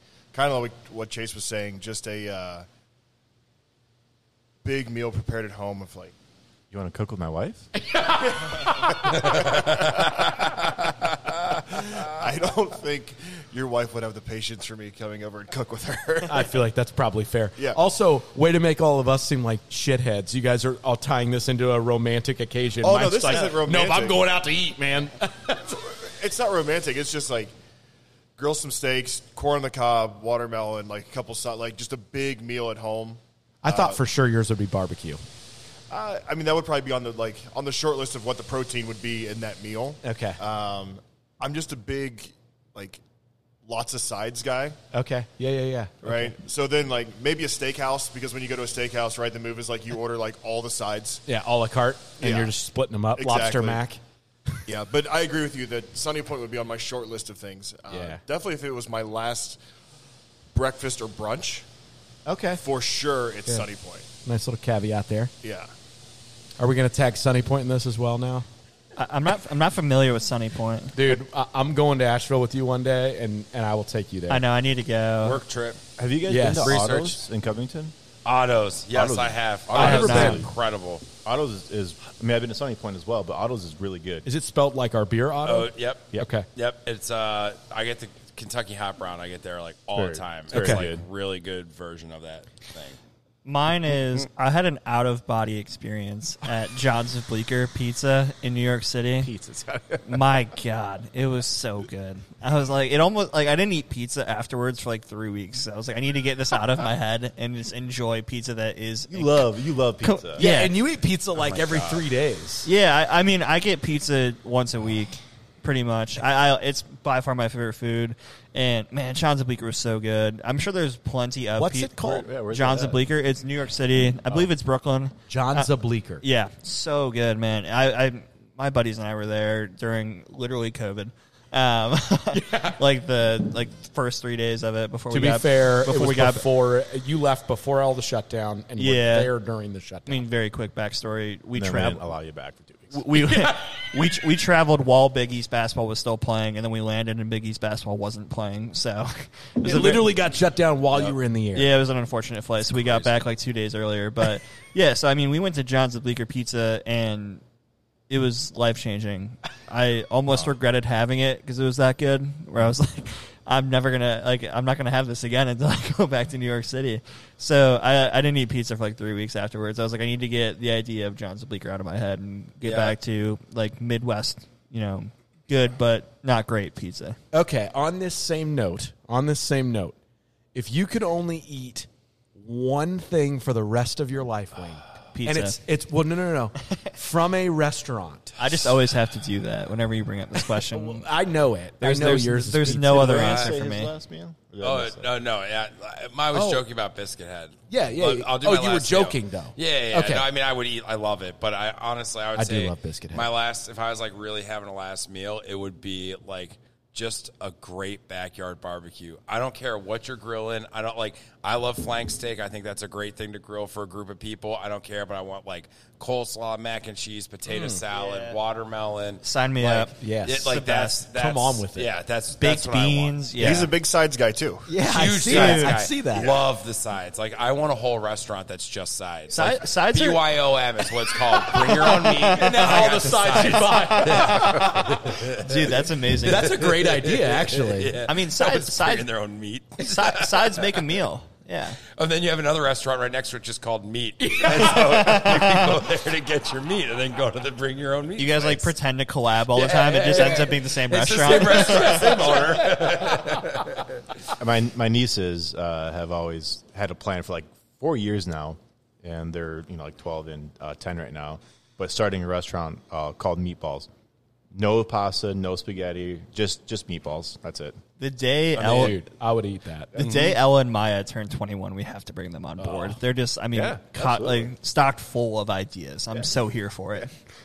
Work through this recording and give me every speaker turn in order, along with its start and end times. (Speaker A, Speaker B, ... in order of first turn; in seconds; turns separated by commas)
Speaker A: 0.3-2.6, Speaker A: 4.6-6.1, Speaker B: 6.7-7.7, Speaker C: 8.3-8.7, Speaker D: 9.2-10.6, Speaker A: 9.5-10.2, Speaker A: 11.5-16.5, Speaker C: 16.3-25.8, Speaker A: 22.8-24.2, Speaker A: 26.0-27.5, Speaker A: 28.4-34.0, Speaker C: 33.6-35.2, Speaker A: 35.9-43.0, Speaker C: 40.0-40.4, Speaker A: 43.6-44.8, Speaker C: 44.9-46.3, Speaker A: 46.0-51.2, Speaker C: 51.2-54.0, Speaker A: 52.2-52.5, Speaker A: 53.1-53.8, Speaker A: 54.7-59.6, Speaker C: 57.9-58.2, Speaker A: 60.5-61.6, Speaker C: 62.2-62.6, Speaker A: 62.6-64.1, Speaker C: 64.2-65.3, Speaker A: 65.4-65.7, Speaker C: 66.6-68.5, Speaker E: 69.0-71.0, Speaker C: 70.9-74.4, Speaker E: 74.3-75.4, Speaker D: 75.2-75.8, Speaker B: 76.0-77.9, Speaker C: 76.3-76.7, Speaker D: 76.5-77.2, Speaker D: 78.2-81.0, Speaker B: 78.9-80.5, Speaker C: 79.7-80.5, Speaker E: 79.8-80.4, Speaker B: 81.2-84.3, Speaker C: 84.2-86.5, Speaker D: 85.4-93.0, Speaker B: 89.9-91.0, Speaker C: 90.5-90.8, Speaker E: 93.4-99.3, Speaker B: 99.2-100.2, Speaker E: 100.0-110.8, Speaker B: 109.1-110.5, Speaker C: 110.4-112.7, Speaker B: 111.6-112.0, Speaker E: 112.6-136.4, Speaker C: 121.6-122.2, Speaker B: 122.0-123.0, Speaker C: 125.3-126.2, Speaker C: 135.1-140.2, Speaker E: 138.8-139.3, Speaker E: 140.1-142.1, Speaker B: 141.5-143.0, Speaker E: 142.9-150.1, Speaker C: 143.2-143.6, Speaker C: 149.6-151.7, Speaker E: 151.5-157.4, Speaker D: 152.7-153.2, Speaker E: 158.1-177.2, Speaker D: 172.6-172.9, Speaker C: 177.3-179.9, Speaker C: 180.5-188.4, Speaker E: 185.1-185.6, Speaker E: 188.4-191.1, Speaker C: 190.7-193.4, Speaker E: 191.8-193.9, Speaker B: 192.8-195.1, Speaker D: 193.1-193.5, Speaker D: 194.6-223.3, Speaker C: 196.3-196.6, Speaker C: 197.7-200.2, Speaker C: 202.4-203.3, Speaker C: 217.5-217.8, Speaker E: 217.9-218.4, Speaker E: 219.2-221.0, Speaker C: 220.0-221.9, Speaker E: 222.4-223.7, Speaker A: 223.4-224.7, Speaker E: 224.7-225.8, Speaker C: 224.8-226.3, Speaker D: 224.8-240.8, Speaker A: 226.1-226.4, Speaker E: 229.3-230.2, Speaker E: 231.5-232.9, Speaker C: 231.5-238.0, Speaker E: 235.4-236.5, Speaker E: 238.0-239.1, Speaker E: 239.8-241.8, Speaker D: 241.9-248.7, Speaker C: 244.2-245.7, Speaker E: 244.8-245.4, Speaker E: 248.2-252.3, Speaker D: 249.5-253.9, Speaker C: 251.2-253.4, Speaker B: 254.3-263.9, Speaker B: 264.5-267.8, Speaker E: 268.0-269.0, Speaker C: 268.6-270.2, Speaker E: 269.9-277.1, Speaker C: 272.6-272.9, Speaker B: 273.5-274.5